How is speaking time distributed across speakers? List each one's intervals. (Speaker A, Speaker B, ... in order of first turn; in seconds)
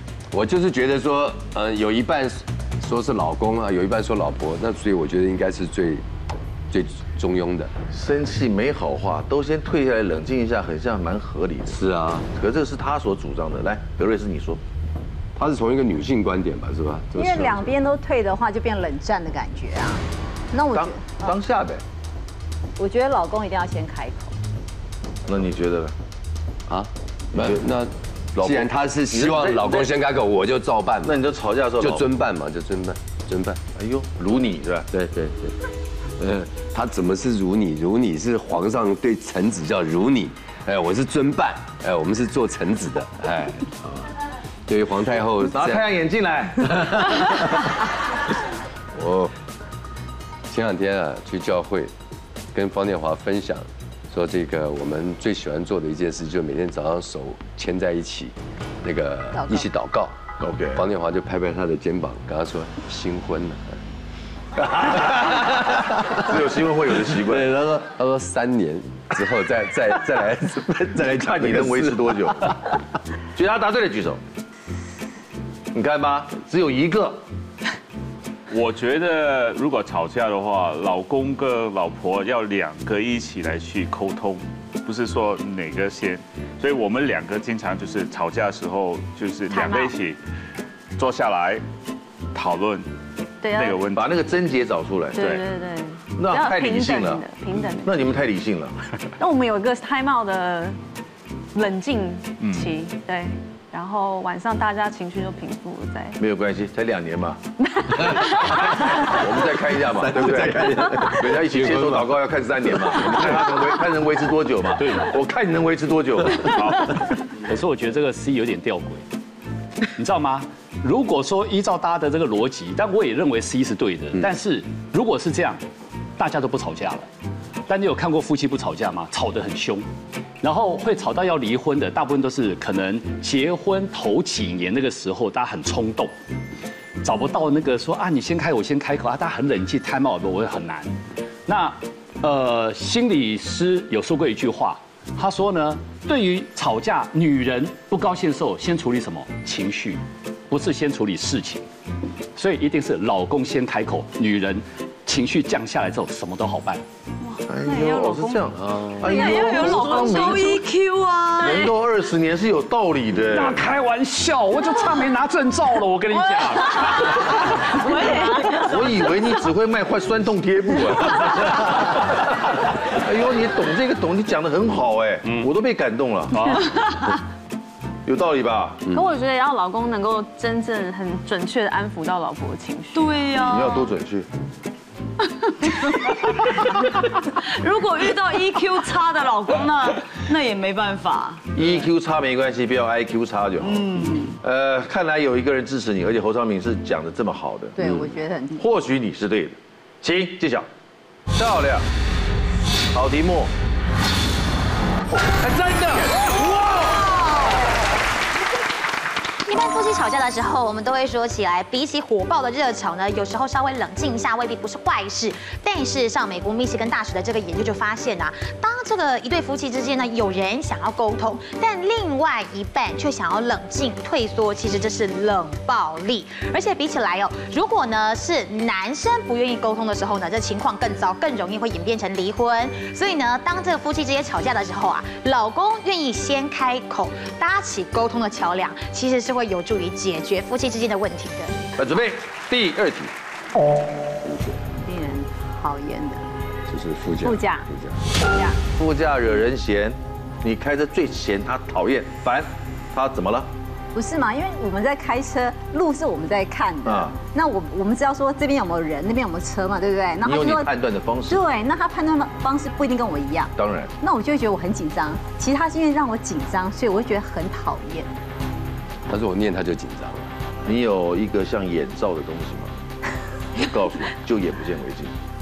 Speaker A: 0.3-6.0, 6.7-7.7, 11.7-12.3, 15.3-17.8, 26.7-31.2, 31.8-33.6, 34.9-35.6, 36.2-44.0, 44.7-45.8, 46.6-47.6, 48.9-49.3, 50.5-51.9, 52.5-60.1, 60.7-63.8, 65.7-66.2, 67.1-72.7, 108.0-113.7, 158.5-159.1, 244.2-244.6, 246.7-248.2, 269.1-270.3
Speaker B: 7.9-11.8, 12.3-14.6, 20.7-21.8, 25.3-25.9, 27.3-27.6, 28.3-29.9, 31.0-32.0, 33.8-34.9, 45.5-47.0, 60.4-60.8, 64.5-67.5, 70.9-72.6, 73.3-74.2, 75.7-77.2, 93.9-95.3, 96.2-97.2, 97.8-98.8, 106.2-116.8, 157.4-160.6, 161.4-163.6, 168.6-176.6, 178.1-178.9, 183.4-184.3, 191.5-197.8, 198.6-200.7, 201.3-201.9, 202.9-203.5, 205.2-207.1, 241.8-243.1, 248.8-253.5, 256.8-257.1, 260.2-261.4, 263.6-263.9, 270.6-272.7, 273.5-275.1
Speaker C: 17.1-21.4, 22.8-24.3, 59.4-59.6, 197.8-198.6, 244.8-246.3, 247.2-248.6, 253.9-260.7, 261.3-268.1
Speaker D: 78.5-90.2, 91.0-91.6, 92.3-92.9, 93.5-94.2, 95.2-95.4, 102.4-102.7
Speaker E: 89.5-90.0, 93.4-93.9, 95.1-98.1, 99.2-100.8, 101.5-106.2, 159.4-160.2, 178.9-183.3
Speaker F: 117.3-119.0, 119.9-125.6, 126.2-127.1, 127.7-129.8, 130.4-136.1, 137.0-140.9, 141.5-151.7, 152.3-156.8, 163.2-167.8, 176.3-176.7
Speaker G: 157.3-158.4, 159.0-161.7, 166.4-169.1, 182.9-183.9, 185.8-186.1, 187.3-191.5, 193.7-194.3
Speaker H: 209.4-241.6